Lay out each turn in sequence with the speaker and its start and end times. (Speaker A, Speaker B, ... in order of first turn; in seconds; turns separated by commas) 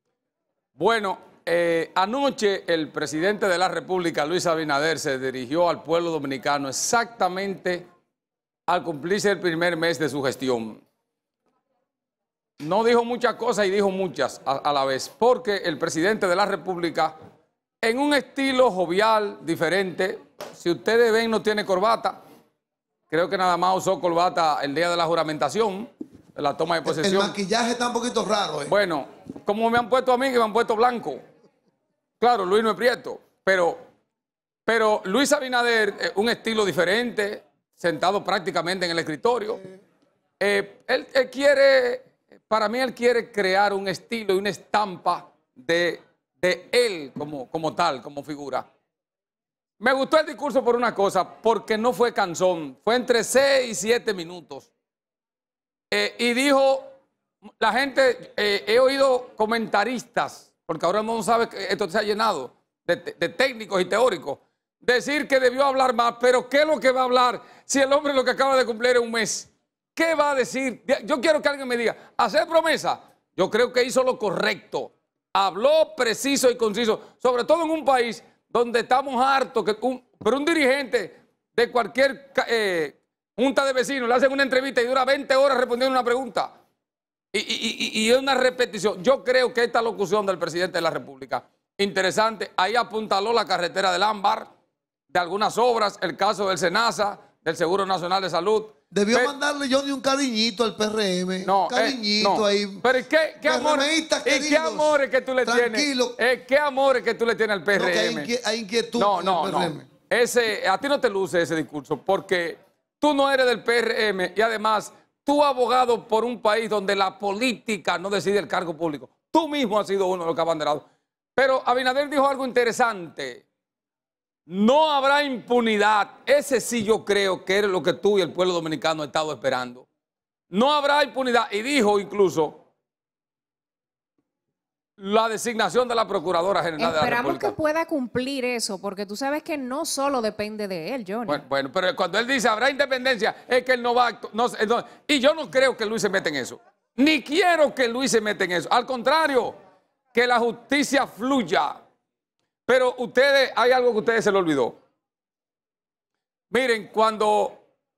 Speaker A: 0.8-7.8, Speaker A: 8.7-10.8, Speaker A: 12.6-17.1, Speaker A: 17.8-22.2, Speaker A: 23.1-27.4, Speaker B: 26.9-28.7, Speaker A: 28.7-31.2, Speaker A: 32.2-33.9, Speaker A: 34.7-39.6, Speaker A: 40.4-48.6, Speaker A: 49.8-54.7, Speaker A: 55.9-56.9, Speaker A: 57.6-86.5, Speaker A: 87.3-94.5, Speaker A: 95.1-99.3, Speaker B: 98.9-102.8, Speaker A: 101.4-108.3, Speaker B: 103.4-106.2, Speaker B: 107.7-109.9, Speaker A: 109.0-120.8, Speaker A: 121.4-123.4, Speaker A: 124.5-129.9, Speaker A: 130.5-132.6, Speaker A: 135.0-137.5, Speaker C: 136.8-141.4, Speaker A: 141.3-149.6, Speaker A: 150.1-151.8, Speaker A: 152.7-154.8, Speaker A: 156.5-157.6